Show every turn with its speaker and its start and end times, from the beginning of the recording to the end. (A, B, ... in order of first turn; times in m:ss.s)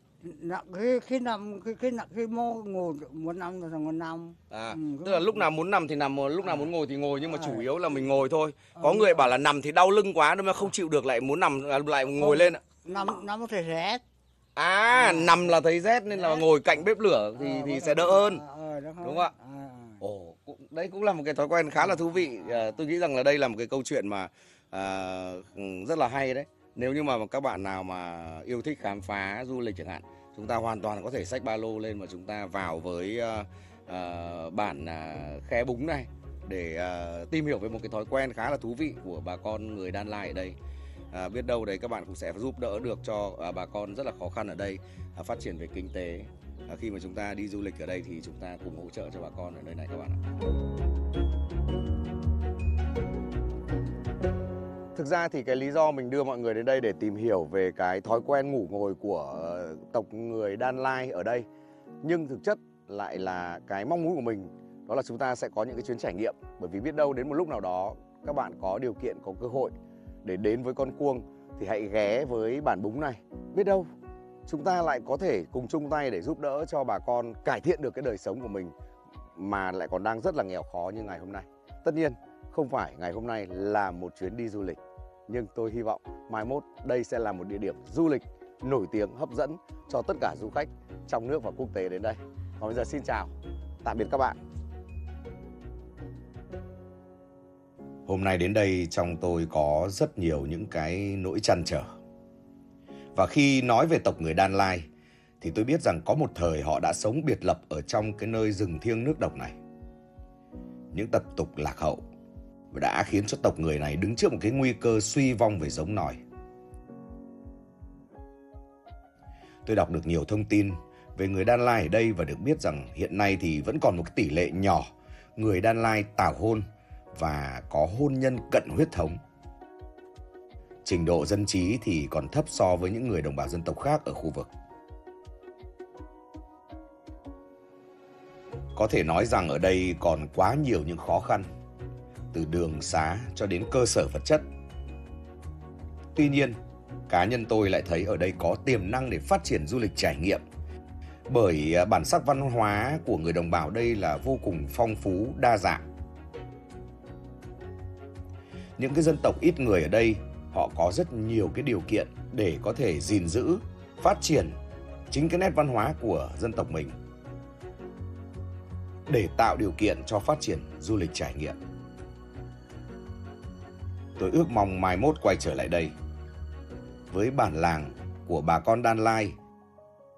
0:00.2-0:05.4 A
0:04.5-0:12.6 B
0:07.3-0:07.6 A
0:08.8-0:09.3 A
0:12.2-0:14.0 A
0:14.6-0:18.4 B
0:14.9-0:15.5 A
0:17.4-0:20.0 A
0:19.0-0:19.3 B
0:20.0-0:40.6 B
0:21.9-0:22.6 A
0:41.1-0:50.2 B
0:54.9-1:01.4 B
1:02.0-1:13.9 B
1:14.5-1:18.7 B
1:19.4-1:33.3 B
1:33.8-1:34.4 B
1:38.1-1:41.9 B
1:43.1-1:44.9 B
1:45.4-1:49.5 B
1:50.9-1:52.0 B
1:52.7-1:56.2 B
1:59.6-2:09.2 B
2:10.8-2:14.5 B
2:18.8-2:21.5 B
2:22.3-2:24.4 B
2:26.1-2:26.6 B
2:27.1-2:30.4 B
2:31.3-2:35.8 B
2:38.8-2:44.6 B
2:45.1-2:47.0 B
2:49.1-2:51.6 B
2:54.2-2:55.9 B
2:57.1-2:59.4 B